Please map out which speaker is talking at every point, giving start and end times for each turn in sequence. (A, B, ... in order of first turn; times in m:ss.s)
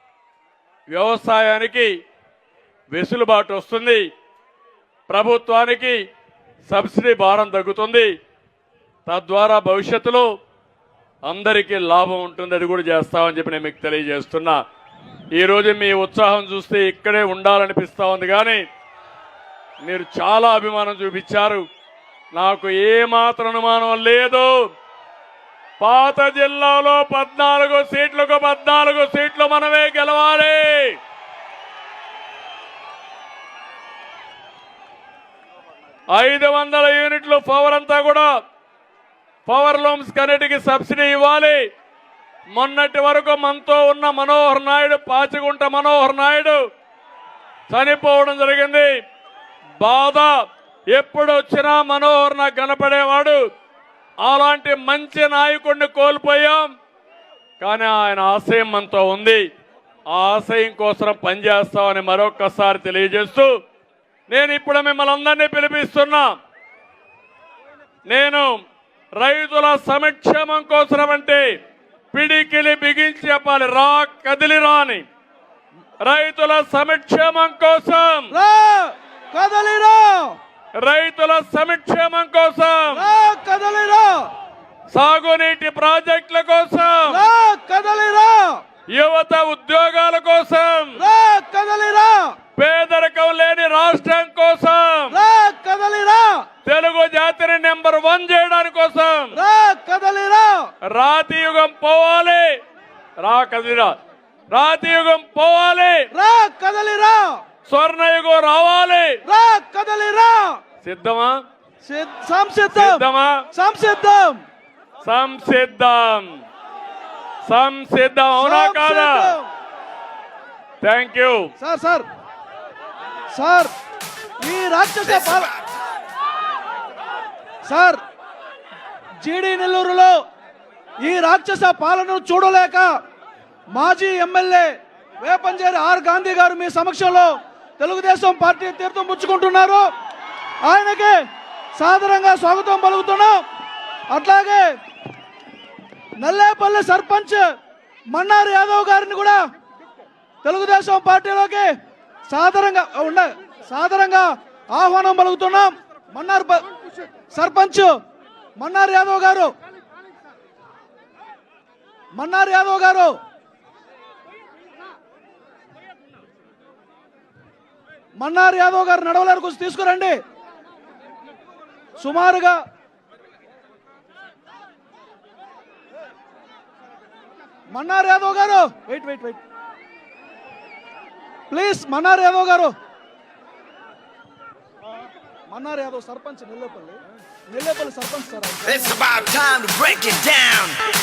0:00.9-0:01.9 A
0:02.9-0:04.1 A
0:05.1-0:06.0 A
0:06.7-0:08.1 A
0:09.1-0:10.3 A
0:11.3-0:14.6 A
0:15.3-0:18.6 A
0:19.8-0:21.6 A
0:22.3-0:24.6 A
0:25.8-0:31.0 A
0:36.1-0:38.3 A
0:39.5-0:41.6 A
0:42.6-0:46.6 A
0:47.7-0:48.9 A
0:49.8-0:50.3 A
0:50.9-0:53.4 A
0:54.2-0:56.7 A
0:57.6-0:59.4 A
1:00.1-1:03.5 A
1:04.3-1:06.3 A
1:08.1-1:08.6 A
1:09.2-1:11.5 A
1:12.1-1:15.0 A
1:16.0-1:18.4 A
1:18.3-1:20.4 B
1:20.8-1:23.1 A
1:22.9-1:24.3 B
1:24.9-1:27.3 A
1:27.1-1:28.6 B
1:28.9-1:31.0 A
1:31.0-1:32.4 B
1:32.6-1:35.2 A
1:35.1-1:36.5 B
1:36.6-1:39.4 A
1:39.3-1:40.7 B
1:40.9-1:42.6 A
1:43.2-1:43.9 A
1:44.5-1:46.1 A
1:46.1-1:47.4 B
1:47.7-1:49.2 A
1:49.2-1:50.6 B
1:50.8-1:51.4 A
1:51.8-1:54.4 B
1:52.7-1:53.4 A
1:55.0-1:56.4 A
1:57.5-1:59.4 A
1:58.4-1:59.5 B
2:00.8-2:01.5 A
2:01.6-2:02.1 B
2:03.3-2:03.7 B
2:04.4-2:05.5 B
2:07.6-2:08.0 B
2:09.2-2:10.2 B
2:11.0-2:12.9 B
2:13.8-2:19.9 B
2:20.6-2:21.2 B
2:21.8-2:23.4 B
2:24.1-2:24.7 B
2:26.2-2:27.5 B
2:28.1-2:29.4 B
2:30.4-2:31.7 B
2:32.3-2:36.7 B
2:37.3-2:37.9 B
2:38.6-2:39.5 B
2:42.2-2:43.2 B
2:48.2-2:50.2 B
2:52.0-2:52.6 B
2:57.7-2:59.4 B
3:01.5-3:02.7 B
3:05.5-3:07.0 B
3:07.5-3:09.0 B
3:08.7-3:10.8 C